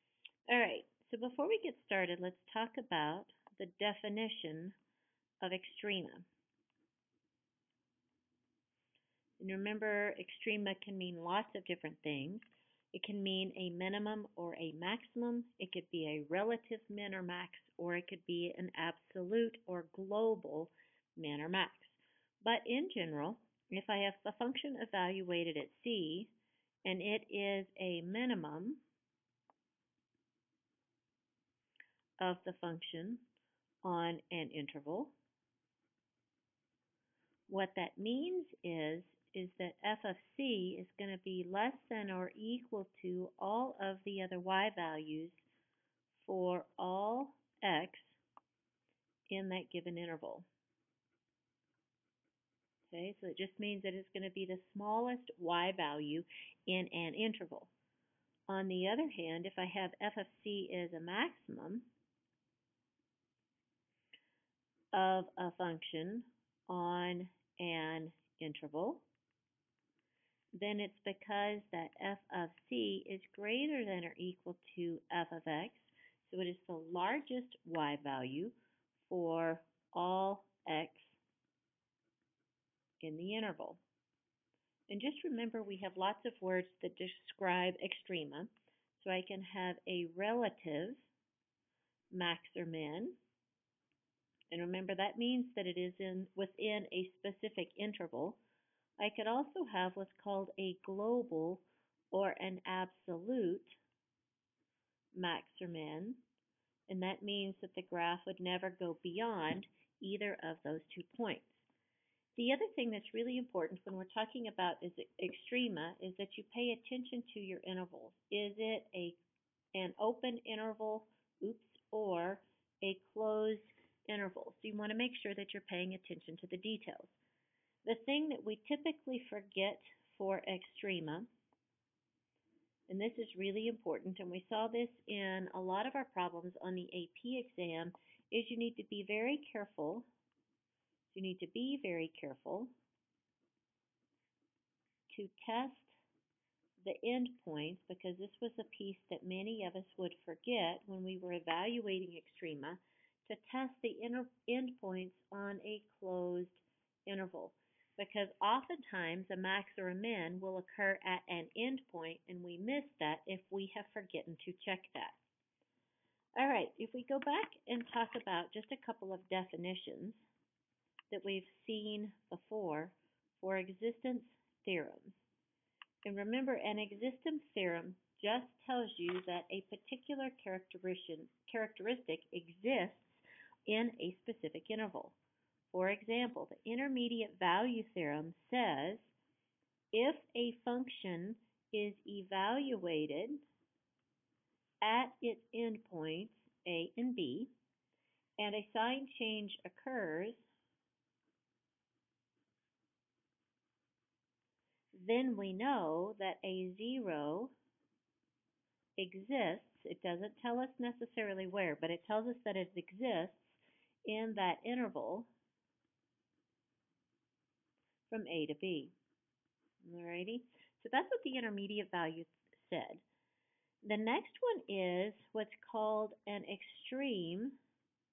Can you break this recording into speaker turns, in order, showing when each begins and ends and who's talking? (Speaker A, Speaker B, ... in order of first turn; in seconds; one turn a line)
Speaker A: 0.5-4.8
Speaker A: 5.4-6.3
Speaker A: 9.4-26.3
Speaker A: 26.9-28.8
Speaker A: 32.2-33.2
Speaker A: 33.8-35.1
Speaker A: 37.5-45.5
Speaker A: 46.1-48.2
Speaker A: 49.3-50.5
Speaker A: 52.9-57.7
Speaker A: 58.5-61.9
Speaker A: 64.9-69.0
Speaker A: 70.5-81.2
Speaker A: 83.0-83.8
Speaker A: 84.9-91.1
Speaker A: 92.1-93.2
Speaker A: 94.5-98.4
Speaker A: 99.0-103.8
Speaker A: 105.1-106.2
Speaker A: 106.9-111.7
Speaker A: 112.4-119.2
Speaker A: 119.7-127.2
Speaker A: 127.8-131.3
Speaker A: 132.9-140.1
Speaker A: 141.1-142.7
Speaker A: 145.1-146.0
Speaker A: 146.8-165.2
Speaker A: 166.4-170.2
Speaker A: 171.1-175.2
Speaker A: 176.1-185.2
Speaker A: 185.7-189.1
Speaker A: 189.9-193.4
Speaker A: 194.8-197.5
Speaker A: 198.4-200.5
Speaker A: 204.9-207.5
Speaker A: 209.0-215.3
Speaker A: 218.1-218.9
Speaker A: 219.8-223.0
Speaker A: 223.8-227.6